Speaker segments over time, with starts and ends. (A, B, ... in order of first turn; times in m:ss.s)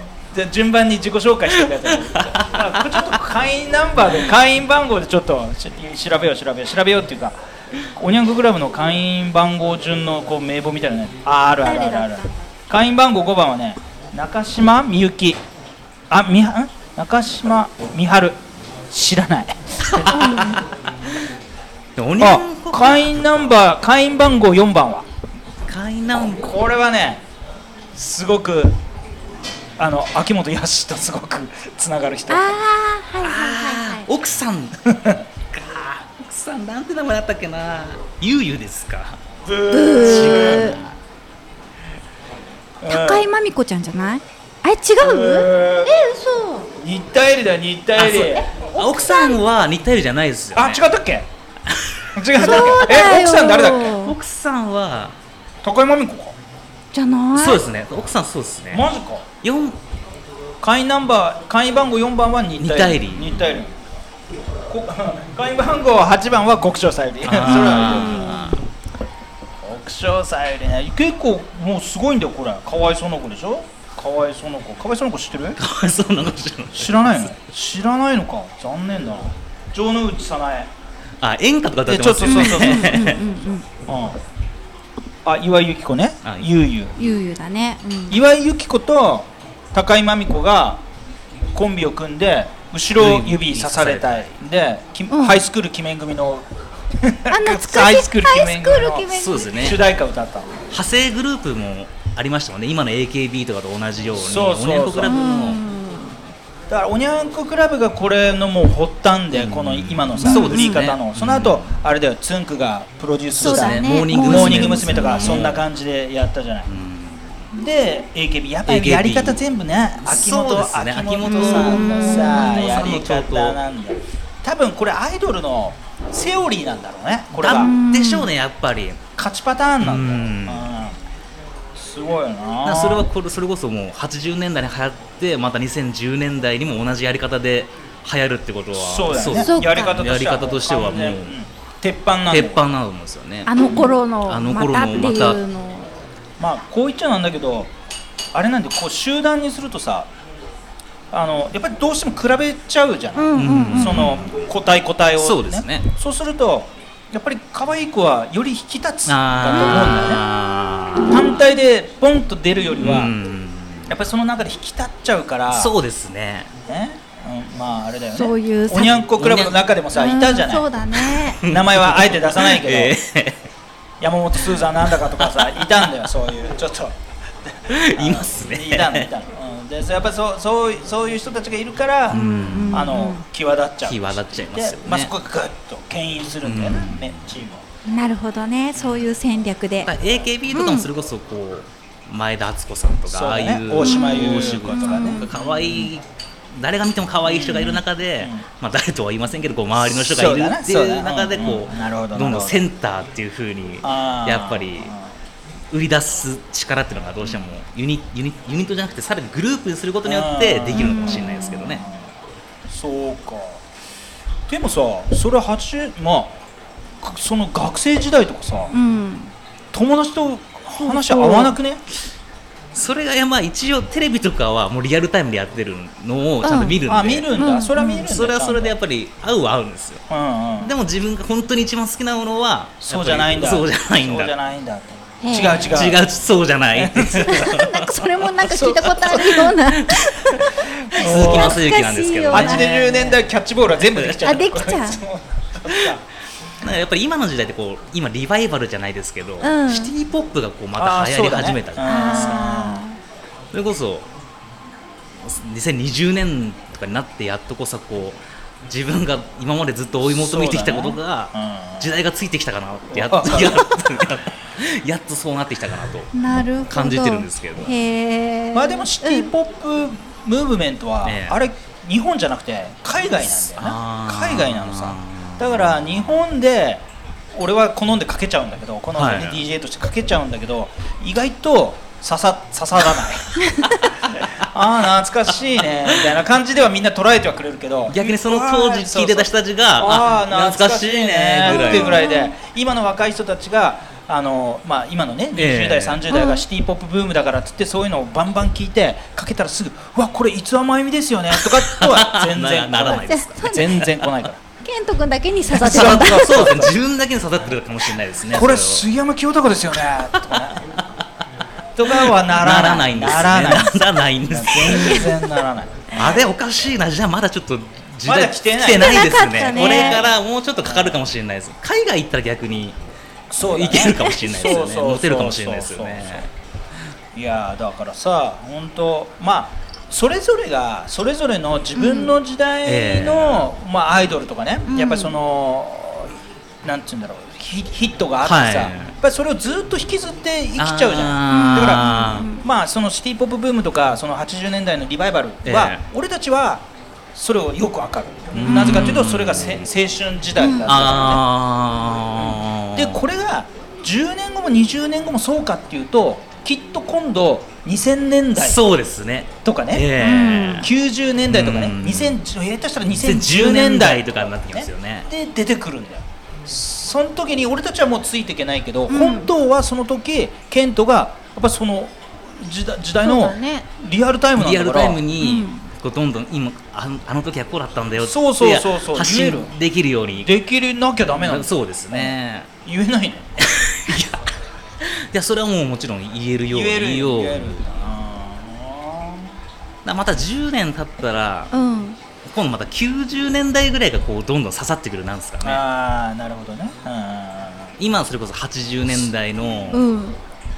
0:00.3-0:07.4 A
0:01.7-0:03.2 B
0:07.9-0:15.4 A
0:11.6-0:12.3 C
0:16.1-0:20.1 A
0:19.9-0:20.9 B
0:20.0-0:20.6 C
0:22.0-0:23.6 B
0:22.2-0:25.1 A
0:25.6-0:26.5 B
0:26.3-0:27.2 A
0:27.9-0:28.8 A
0:29.8-0:32.6 A
0:32.3-0:34.1 C
0:33.2-0:34.9 B
0:34.8-0:35.2 A
0:35.5-0:39.2 B
0:39.4-0:40.9 A
0:39.7-0:40.8 C
0:39.9-0:40.9 B
0:42.8-0:43.3 A
0:42.9-0:46.7 C
0:45.0-0:46.0 A
0:46.8-0:48.5 A
0:48.0-0:50.8 B
0:48.2-0:49.4 C
0:50.6-0:51.3 A
0:51.7-0:52.9 B
0:52.2-0:54.0 A
0:52.4-0:54.2 C
0:53.9-0:55.2 B
0:55.6-0:56.4 A
0:56.9-0:57.6 C
0:57.4-0:58.9 B
0:58.7-0:59.2 A
0:59.4-0:59.8 B
1:00.6-1:03.7 A
1:02.6-1:03.6 B
1:04.7-1:08.5 A
1:07.2-1:08.6 B
1:07.5-1:08.6 C
1:09.6-1:15.6 A
1:15.6-1:17.3 B
1:16.8-1:20.7 A
1:21.2-1:23.2 B
1:21.9-1:23.2 A
1:22.3-1:23.7 C
1:23.9-1:24.2 A
1:25.2-1:27.0 A
1:26.2-1:26.5 B
1:27.0-1:28.2 C
1:28.1-1:30.8 A
1:31.5-1:40.6 A
1:33.0-1:34.4 B
1:35.1-1:35.4 C
1:37.3-1:39.7 C
1:39.1-1:39.8 B
1:40.7-1:45.6 B
1:44.1-1:45.2 A
1:45.0-1:46.2 C
1:46.7-1:56.7 A
1:49.3-1:51.8 B
1:50.2-1:50.9 C
1:53.4-1:55.5 C
1:53.4-1:55.6 B
1:56.7-1:57.5 B
1:57.5-2:07.8 A
1:58.7-1:59.4 B
2:00.0-2:03.6 B
2:01.2-2:02.9 C
2:07.4-2:09.0 B
2:07.4-2:08.3 C
2:09.2-2:11.0 A
2:09.8-2:10.7 B
2:11.7-2:13.1 A
2:12.6-2:21.4 B
2:18.7-2:22.7 A
2:19.3-2:20.0 C
2:22.3-2:25.4 B
2:23.5-2:25.9 C
2:26.4-2:27.7 A
2:28.3-2:30.1 A
2:31.1-2:40.2 A
2:33.2-2:34.3 C
2:33.4-2:34.4 B
2:35.2-2:35.9 B
2:39.1-2:41.3 B
2:39.5-2:40.1 C
2:41.1-2:43.1 A
2:42.8-2:43.9 B
2:43.9-2:45.8 A
2:45.5-2:46.5 B
2:46.7-2:50.7 A
2:48.1-2:49.1 C
2:49.2-2:49.6 B
2:49.9-2:51.4 C
2:51.3-2:53.5 B
2:51.4-2:53.0 A
2:54.0-3:07.6 A
2:55.0-2:55.9 B
2:57.7-2:59.1 B
3:02.1-3:03.2 C
3:02.1-3:02.9 B
3:03.8-3:05.1 B
3:06.4-3:07.3 B
3:07.9-3:09.9 C
3:09.8-3:24.9 B
3:10.5-3:10.9 C
3:13.1-3:15.9 A
3:13.8-3:15.3 C
3:17.2-3:18.4 A
3:19.8-3:22.7 A
3:23.8-3:25.1 A
3:25.7-3:31.9 B
3:30.0-3:32.1 A
3:30.7-3:31.7 C
3:32.7-3:33.6 A
3:34.5-3:36.4 A
3:37.0-3:38.8 A
3:38.7-3:39.3 C
3:39.7-3:41.8 A
3:40.8-3:41.6 C
3:42.7-3:47.3 B
3:46.4-3:46.8 C
3:46.8-3:48.8 A
3:47.3-3:48.1 C
3:48.0-3:50.0 B
3:50.1-3:50.7 A
3:50.6-3:54.3 B
3:52.8-3:56.0 A
3:55.2-3:55.8 C
3:55.6-3:58.4 B
3:56.7-3:57.5 A
3:57.2-4:03.1 C
3:58.4-3:59.5 A
3:59.6-4:03.2 B
4:00.5-4:01.7 A
4:02.3-4:06.0 A
4:03.8-4:04.2 B
4:04.2-4:05.0 C
4:06.6-4:12.4 B
4:09.4-4:09.9 C
4:10.8-4:12.9 A
4:11.8-4:13.0 C
4:13.5-4:14.1 B
4:15.2-4:27.8 B
4:20.0-4:22.0 A
4:22.9-4:24.1 A
4:26.1-4:29.3 C
4:28.5-5:04.4 A
4:31.0-4:31.4 B
4:33.2-4:36.0 B
4:39.0-4:39.4 B
4:47.9-4:52.0 B
4:51.5-4:52.3 C
4:55.4-4:56.0 B
4:56.1-4:56.4 C
5:01.4-5:03.8 B
5:02.9-5:03.9 C
5:04.6-5:06.6 C
5:05.5-5:06.8 A
5:05.6-5:08.9 B
5:08.3-5:10.7 A
5:10.2-5:11.0 B
5:11.8-5:16.2 A
5:11.9-5:15.1 B
5:14.7-5:15.2 C
5:15.9-5:22.8 B
5:18.0-5:21.1 A
5:18.7-5:20.0 C
5:23.3-5:26.3 A
5:23.4-5:26.3 B
5:27.1-5:51.2 A
5:31.8-5:32.1 C
5:32.6-5:33.5 B
5:34.7-5:35.1 C
5:38.2-5:39.0 B
5:40.6-5:42.3 B
5:41.3-5:42.4 C
5:45.4-5:45.8 B
5:48.4-5:49.7 B
5:48.5-5:48.9 C
5:50.4-5:50.8 C
5:50.7-5:53.0 B
5:52.2-5:58.6 A
5:58.4-6:00.7 B
5:59.4-6:15.1 A
6:00.0-6:00.7 C
6:01.3-6:02.2 B
6:02.9-6:05.1 B
6:08.9-6:09.3 C
6:13.0-6:13.7 C
6:14.4-6:20.3 B
6:15.2-6:15.6 C
6:18.0-6:19.5 A
6:20.2-6:23.3 A
6:21.1-6:22.5 B
6:23.4-6:27.6 B
6:26.5-6:29.3 A
6:29.8-6:31.5 B
6:31.5-6:32.0 C
6:32.2-6:35.6 B
6:35.4-6:37.8 A
6:37.8-6:39.9 B
6:39.4-6:39.8 A
6:39.7-6:40.2 C